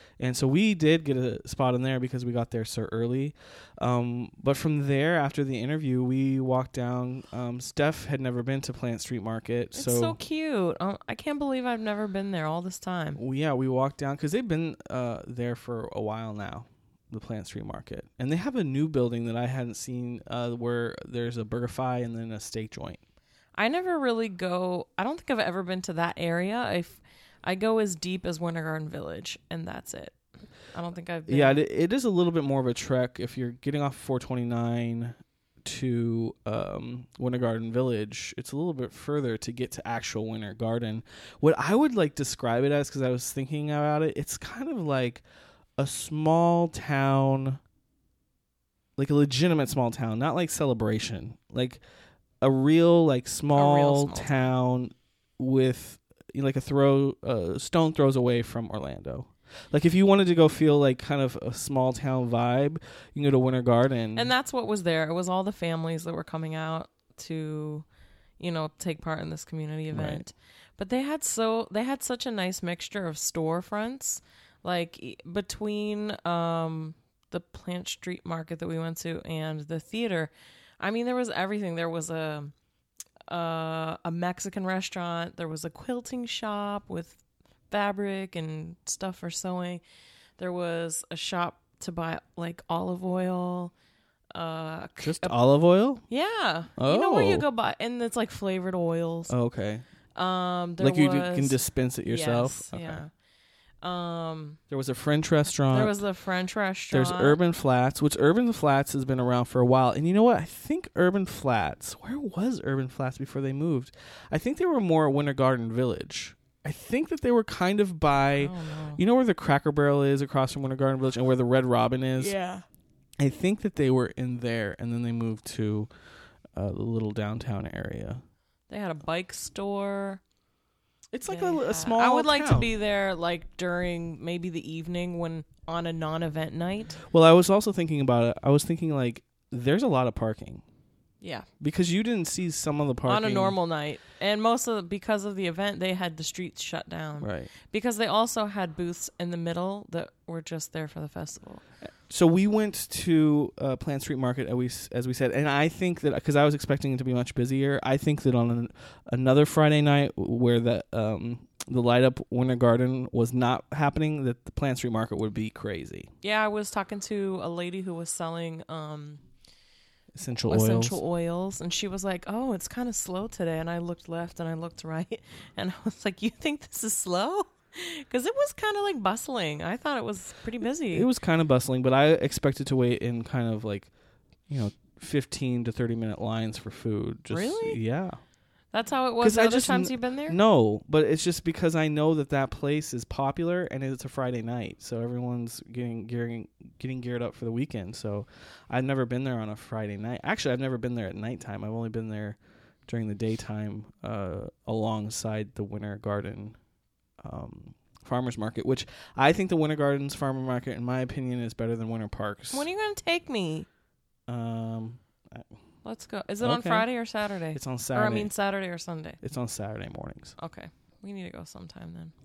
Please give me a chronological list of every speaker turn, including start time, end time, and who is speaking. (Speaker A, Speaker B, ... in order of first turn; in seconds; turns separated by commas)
Speaker A: 0.2-10.2, Speaker B: 9.7-13.2, Speaker A: 13.2-23.0, Speaker B: 23.5-30.2, Speaker B: 30.7-31.6, Speaker A: 31.3-45.2, Speaker A: 45.8-47.6, Speaker A: 49.0-51.8, Speaker A: 52.4-64.3, Speaker B: 53.5-54.3, Speaker B: 64.1-67.8, Speaker B: 68.4-82.5, Speaker A: 69.9-70.2, Speaker B: 83.3-87.2, Speaker B: 87.7-89.8, Speaker B: 90.4-93.7, Speaker B: 94.3-95.4, Speaker A: 95.0-96.0, Speaker B: 96.1-99.3, Speaker A: 96.8-97.5, Speaker A: 99.3-99.8, Speaker B: 100.1-103.1, Speaker A: 100.8-103.0, Speaker B: 103.8-104.6, Speaker A: 104.7-106.0, Speaker B: 105.7-107.4, Speaker A: 106.9-122.3, Speaker B: 118.4-119.0, Speaker B: 122.2-122.6, Speaker A: 123.2-125.9, Speaker A: 126.5-128.2, Speaker B: 128.7-130.2, Speaker A: 131.1-132.7, Speaker B: 131.2-137.0, Speaker A: 137.0-140.6, Speaker B: 141.2-141.5, Speaker A: 141.6-143.6, Speaker B: 143.0-151.6, Speaker A: 147.2-147.5, Speaker A: 152.1-166.1, Speaker B: 166.2-169.2, Speaker A: 170.1-171.0, Speaker B: 170.5-181.1, Speaker A: 180.9-183.9, Speaker A: 184.5-188.2, Speaker B: 187.3-187.8, Speaker B: 188.7-190.4, Speaker A: 189.2-206.6, Speaker A: 207.2-212.7, Speaker B: 212.5-213.7, Speaker A: 214.3-215.5, Speaker B: 215.8-219.2, Speaker A: 216.4-216.9, Speaker A: 217.5-218.3, Speaker A: 219.2-220.3, Speaker B: 220.4-222.1